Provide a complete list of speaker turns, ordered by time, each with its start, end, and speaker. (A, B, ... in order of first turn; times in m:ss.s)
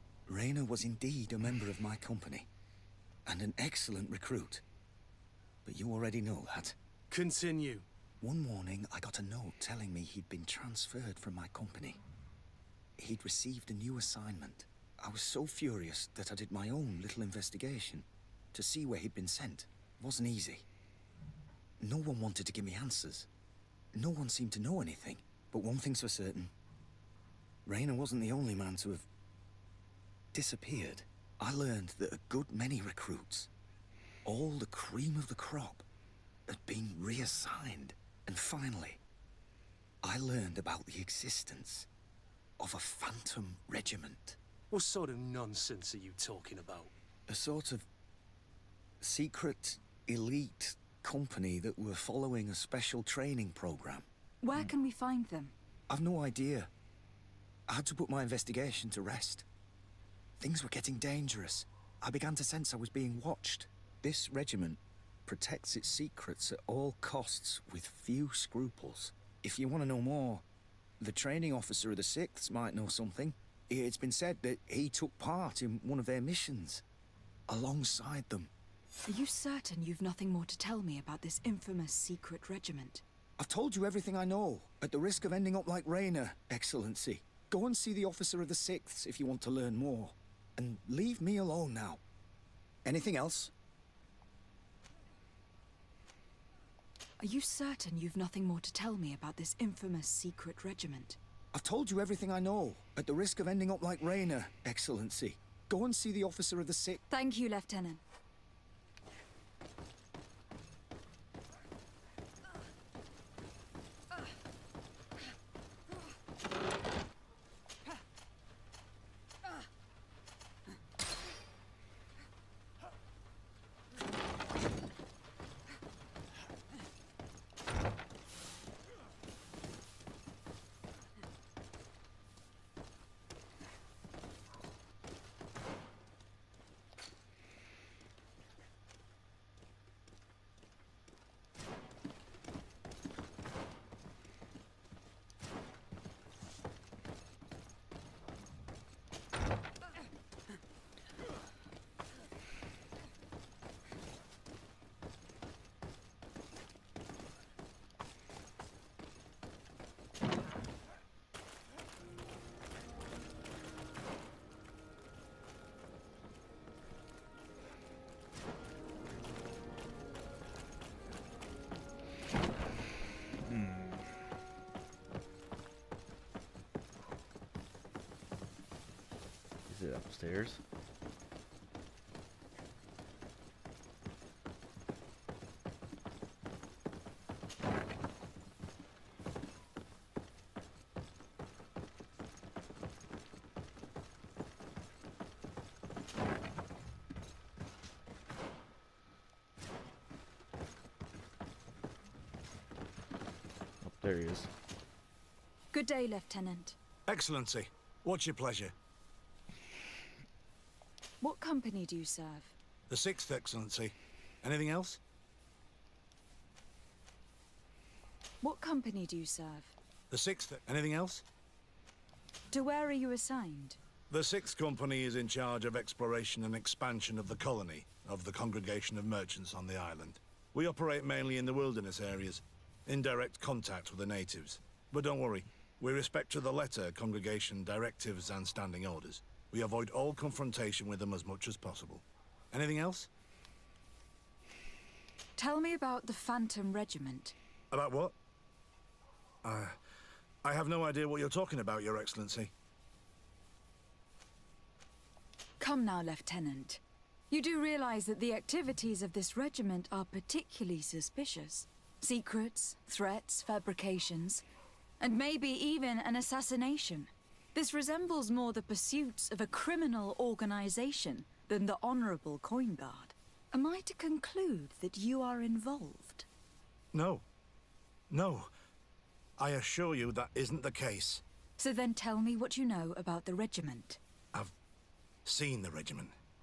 0:00.3-0:02.5 A
0:03.3-0:04.6 A
0:05.6-0:06.8 A
0:07.1-0:07.8 B
0:08.2-0:12.0 A
0:13.0-0:20.7 A
0:21.8-0:23.3 A
0:23.9-0:26.5 A
0:27.7-0:29.1 A
0:30.3-0:33.5 A
0:34.2-0:35.8 A
0:36.5-0:39.0 A
0:40.0-0:41.9 A
0:42.6-0:44.4 A
0:44.7-0:46.9 B
0:47.3-0:47.9 A
0:49.0-0:54.0 A
0:54.4-0:55.5 C
0:55.9-0:56.7 A
0:57.7-0:59.5 A
1:00.4-1:10.4 A
1:11.0-1:16.8 A
1:17.5-1:18.5 A
1:19.1-1:23.0 C
1:23.4-1:32.0 A
1:32.8-1:33.5 A
1:37.2-1:41.2 C
1:41.5-1:47.0 A
1:47.1-1:48.0 C
2:53.4-2:54.1 D
2:59.7-3:00.6 D
3:23.8-3:24.5 D
3:25.7-3:26.8 C
3:27.1-3:28.7 E
3:31.2-3:32.6 C
3:32.9-3:35.0 E
3:38.4-3:39.8 C
3:40.1-3:41.2 E
3:42.5-3:43.8 C
3:44.1-4:03.1 E
4:05.4-4:07.4 C
4:07.7-4:08.1 E
4:09.4-4:09.8 E
4:10.4-4:12.5 E
4:15.6-4:24.4 C
4:25.0-4:36.3 C
4:36.9-4:37.2 E
4:38.1-4:38.5 E
4:39.4-4:41.2 E
4:41.6-4:44.0 C
4:45.2-4:46.1 E